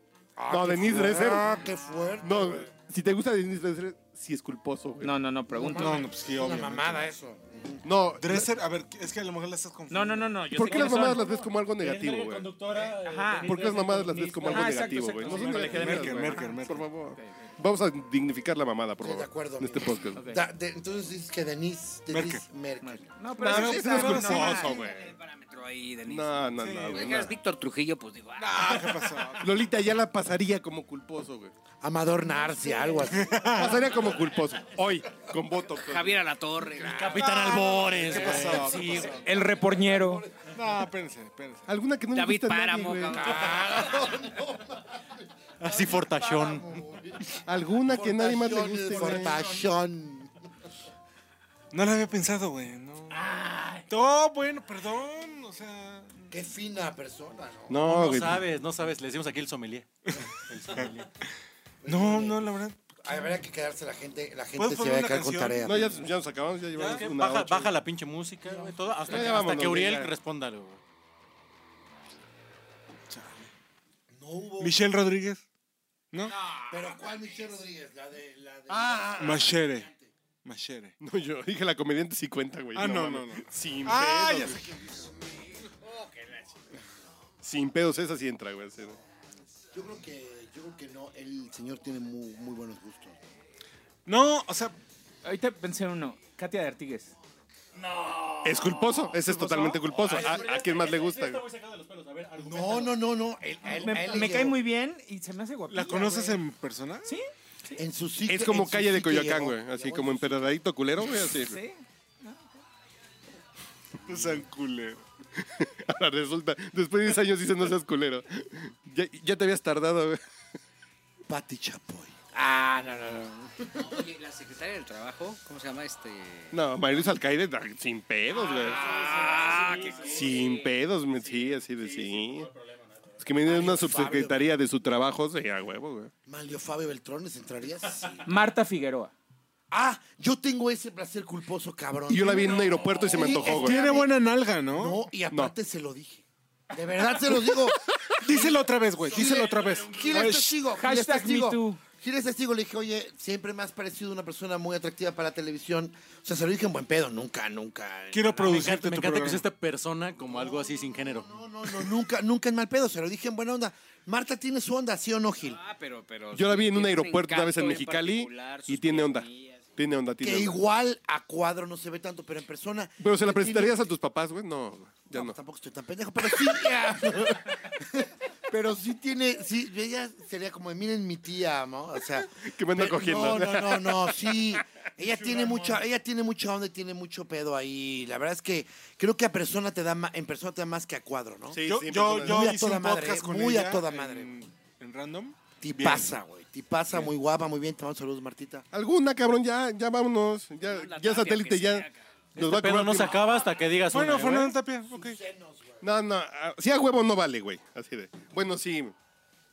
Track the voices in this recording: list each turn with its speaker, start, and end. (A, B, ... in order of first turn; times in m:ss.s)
0:00.4-0:02.7 A
0:00.5-0:01.4 B
0:02.2-0:05.2 B
0:05.0-0:06.1 C
0:05.5-0:07.9 A
0:05.7-0:07.1 D
0:07.8-0:08.5 B
0:08.2-0:10.4 D
0:09.9-0:11.3 C
0:10.5-0:12.6 B
0:11.8-0:14.1 E
0:12.9-0:16.6 C
0:13.4-0:20.2 B
0:15.5-0:16.9 D
0:17.1-0:17.5 C
0:19.0-0:23.1 A
0:20.2-0:20.4 C
0:22.1-0:22.4 D
0:22.8-0:24.8 C
0:23.4-0:25.1 B
0:23.4-0:24.7 D
0:24.7-0:29.0 F
0:26.0-0:27.3 B
0:26.6-0:27.0 D
0:28.4-0:29.5 D
0:29.4-0:31.5 B
0:31.8-0:33.7 A
0:33.0-0:33.8 D
0:33.4-0:36.2 B
0:35.7-0:37.4 F
0:36.8-0:39.0 E
0:37.9-0:39.2 D
0:38.6-0:40.5 A
0:38.8-0:40.2 C
0:40.4-0:41.7 D
0:41.7-0:43.5 B
0:42.1-0:44.0 F
0:43.1-0:50.4 A
0:45.6-0:46.7 E
0:47.4-0:49.5 B
0:49.0-0:49.3 D
0:51.7-0:53.3 D
0:53.9-0:56.3 D
0:56.3-0:57.8 A
0:57.7-0:58.4 B
0:57.8-0:59.9 E
1:00.1-1:00.9 D
1:00.5-1:01.1 E
1:01.8-1:06.1 A
1:01.8-1:02.8 D
1:04.5-1:05.9 D
1:05.6-1:07.8 B
1:06.7-1:10.8 E
1:08.4-1:09.4 A
1:09.1-1:10.1 B
1:13.1-1:13.5 D
1:14.1-1:14.8 A
1:14.6-1:15.4 D
1:16.1-1:16.4 D
1:16.5-1:20.1 A
1:18.7-1:19.5 B
1:19.2-1:19.9 D
1:20.4-1:20.9 D
1:21.0-1:24.6 B
1:22.7-1:25.2 D
1:27.4-1:29.0 B
1:29.7-1:33.2 A
1:34.0-1:34.8 D
1:35.2-1:37.1 C
1:37.8-1:39.2 E
1:38.4-1:41.4 B
1:39.2-1:39.8 C
1:39.9-1:43.0 E
1:40.1-1:40.5 A
1:42.4-1:44.6 A
1:43.6-1:46.4 C
1:45.7-1:47.1 D
1:47.8-1:50.4 A
1:48.2-1:51.6 B
1:51.3-1:52.5 C
1:54.0-1:55.0 D
1:55.6-2:00.2 B
2:01.3-2:02.2 A
2:02.4-2:06.6 F
2:06.5-2:08.8 B
2:08.6-2:10.2 F
2:08.7-2:10.1 A
2:09.0-2:10.0 E
2:10.0-2:12.5 B
2:13.2-2:16.1 B
2:13.4-2:14.4 A
2:16.2-2:18.3 A
2:18.2-2:19.1 C
2:19.7-2:24.1 A
2:22.1-2:23.8 B
2:23.4-2:25.1 D
2:24.7-2:38.6 A
2:28.2-2:30.6 D
2:30.8-2:31.8 C
2:38.1-2:39.4 D
2:38.4-2:41.3 E
2:40.2-2:45.6 A
2:45.4-2:49.7 F
2:46.3-2:50.6 B
2:50.2-2:53.9 A
2:53.0-2:55.4 B
2:55.1-3:11.6 A
3:02.2-3:04.4 B
3:05.0-3:05.8 D
3:11.5-3:12.5 B
3:11.6-3:16.2 D
3:12.2-3:14.4 A
3:15.6-3:18.6 A
3:18.7-3:23.2 B
3:20.6-3:22.0 F
3:22.4-3:24.6 E
3:23.9-3:25.2 D
3:24.9-3:25.9 A
3:25.8-3:28.9 B